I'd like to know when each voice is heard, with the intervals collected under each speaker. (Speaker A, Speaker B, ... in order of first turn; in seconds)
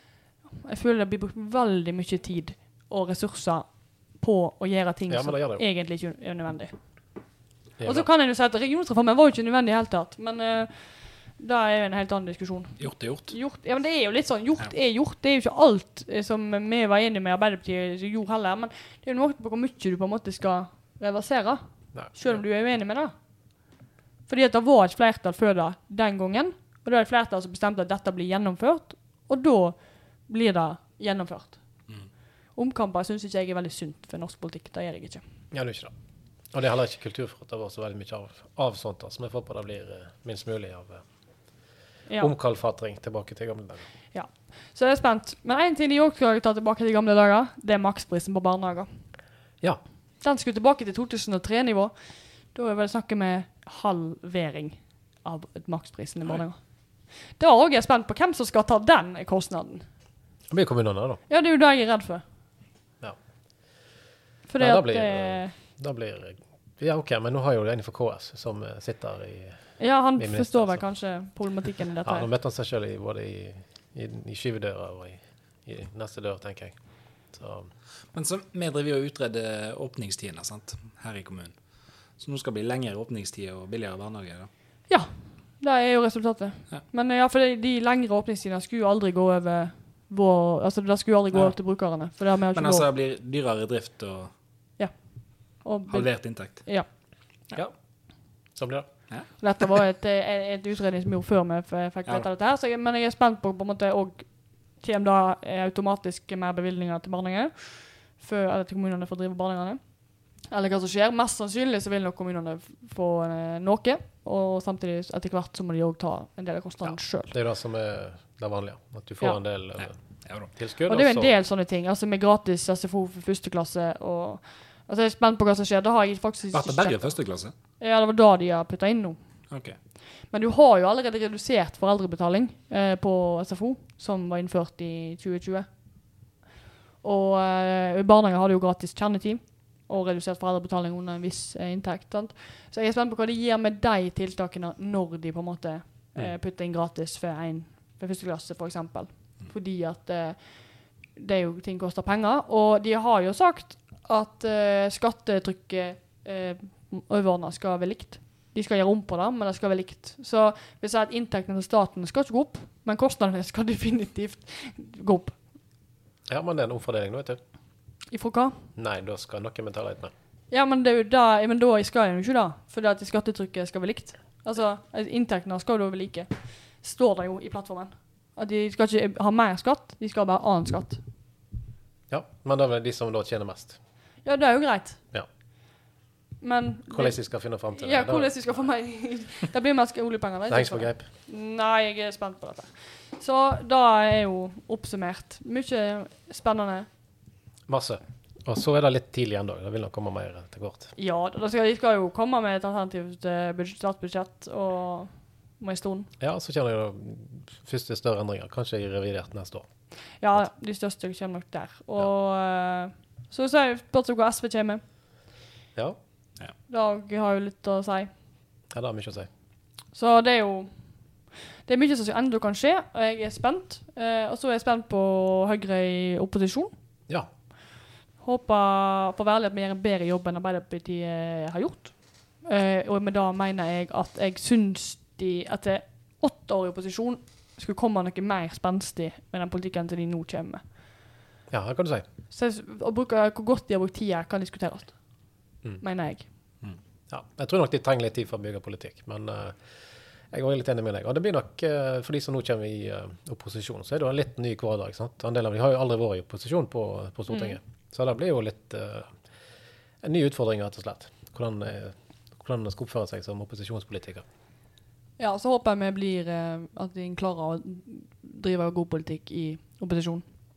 Speaker A: 0.6-3.6, 4.2-6.7, 7.8-23.1, 24.3-29.8, 30.3-31.6, 32.5-35.2, 44.1-48.9, 50.2-51.9, 52.5-56.6, 57.4-59.9, 61.3-62.2, 64.5-65.5, 69.8-72.3, 84.9-92.9, 95.6-96.9, 99.4-109.8, 110.5-117.3, 120.9-127.0, 127.8-129.2, 130.3-135.7, 137.0-150.6, 151.1-165.3, 168.1-168.6, 170.5-181.0, 184.2-185.0, 186.4-187.2, 187.7-196.9, 201.0-206.1, 210.2-214.8, 216.7-218.1, 219.9-220.7, 221.7-226.7, 228.2-240.6, 242.3-244.9, 245.8-246.3, 265.2-270.2
Speaker B: 5.1-5.6, 7.8-8.1, 35.5-35.9, 36.5-41.0, 42.2-43.8, 60.5-61.2, 64.6-70.8, 72.0-76.7, 77.3-77.7, 98.5-98.9, 116.8-119.9, 120.5-121.3, 166.3-167.4, 168.8-170.1, 182.1-183.8, 186.9-188.3, 190.5-191.0, 197.7-200.9, 206.2-209.7, 218.7-219.3, 241.5-242.0, 247.1-249.6, 250.3-259.1, 260.0-264.2
Speaker C: 12.8-13.3, 78.1-81.5, 82.2-84.5, 92.5-94.3, 95.9-96.7, 119.8-120.5, 126.5-127.5, 129.5-129.8